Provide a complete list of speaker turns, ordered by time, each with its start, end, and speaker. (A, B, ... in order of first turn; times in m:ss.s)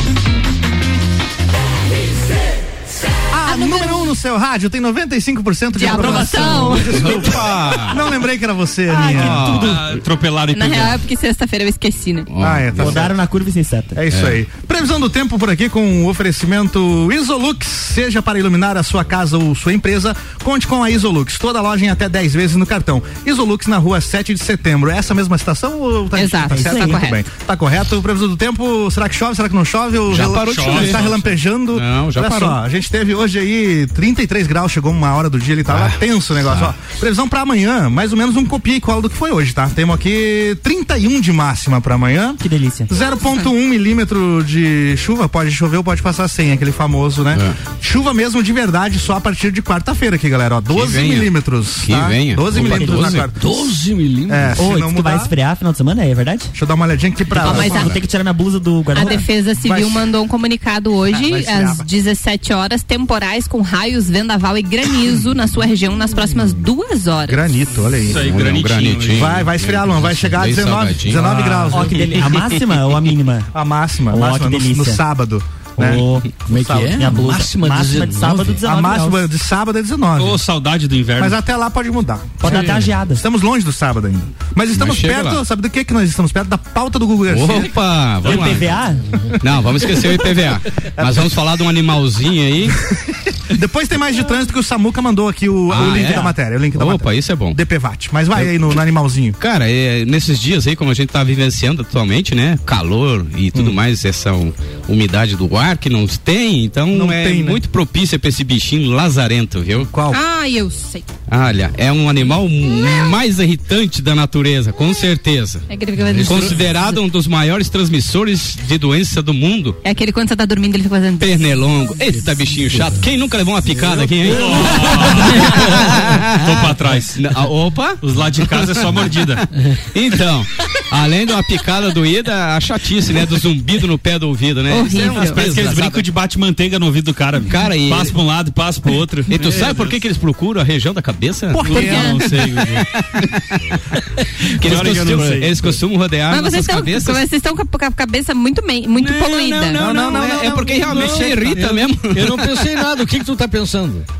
0:03.3-0:09.5 A
0:03.4-0:04.1 B
0:05.8-0:07.0 B
0:05.8-0:07.0 C
0:06.8-0:08.0 D
0:08.9-0:09.8 C
0:09.1-0:09.8 D
0:09.5-0:11.0 E
0:10.5-0:12.3 B
0:12.3-0:13.1 D
0:12.4-0:13.1 A
0:12.8-0:14.0 C
0:14.0-0:53.7 A
0:14.1-0:14.4 D
0:26.1-0:27.2 B
0:26.5-0:27.0 C
0:30.1-0:31.1 D
0:30.2-0:31.3 E
0:31.7-0:32.6 D
0:35.7-0:36.7 D
0:42.4-0:42.9 C
0:50.7-0:53.3 D
0:52.6-0:53.2 C
0:53.3-0:54.6 F
0:54.3-0:55.3 A
0:54.6-0:56.5 C
0:56.5-0:58.0 A
0:57.3-0:59.3 C
0:57.4-0:58.0 B
0:58.9-1:07.4 B
0:59.6-1:00.0 A
1:01.1-1:01.9 A
1:07.2-1:08.3 A
1:08.1-1:09.4 E
1:08.2-1:11.3 D
1:09.1-1:12.0 A
1:11.1-1:12.0 E
1:11.7-1:13.5 C
1:12.0-1:12.6 D
1:13.5-1:17.3 A
1:14.1-1:15.0 C
1:15.8-1:19.3 C
1:16.5-1:18.6 F
1:18.6-1:20.4 A
1:20.2-1:21.4 E
1:21.2-1:27.7 A
1:22.4-1:23.2 C
1:22.4-1:22.9 F
1:24.7-1:25.4 D
1:27.3-1:28.8 D
1:28.2-1:29.0 C
1:28.2-1:28.6 E
1:29.4-1:32.8 D
1:33.5-1:39.4 A
1:35.7-1:37.6 D
1:35.8-1:36.3 C
1:39.4-1:49.9 D
1:43.5-1:43.8 A
1:46.9-1:47.6 A
1:49.9-1:50.2 A
1:50.1-1:51.1 B
1:51.3-1:55.6 D
1:55.7-1:56.8 B
1:55.9-1:56.8 F
1:56.2-1:59.8 D
1:59.8-2:01.7 B
2:01.2-2:06.6 D
2:02.1-2:03.1 F
2:03.8-2:05.1 F
2:04.2-2:05.7 E
2:05.6-2:06.1 F
2:06.3-2:07.4 E
2:07.2-2:16.0 D
2:08.0-2:09.5 E
2:14.7-2:15.4 B
2:14.9-2:20.0 E
2:17.4-2:18.2 D
2:19.3-2:22.2 D
2:21.5-2:22.3 A
2:21.6-2:22.9 E
2:21.7-2:22.2 B
2:22.8-2:23.8 D
2:24.6-2:27.2 D
2:24.6-2:25.5 E
2:26.3-2:29.9 B
2:29.0-2:32.6 D
2:29.8-2:31.6 A
2:30.0-2:34.1 F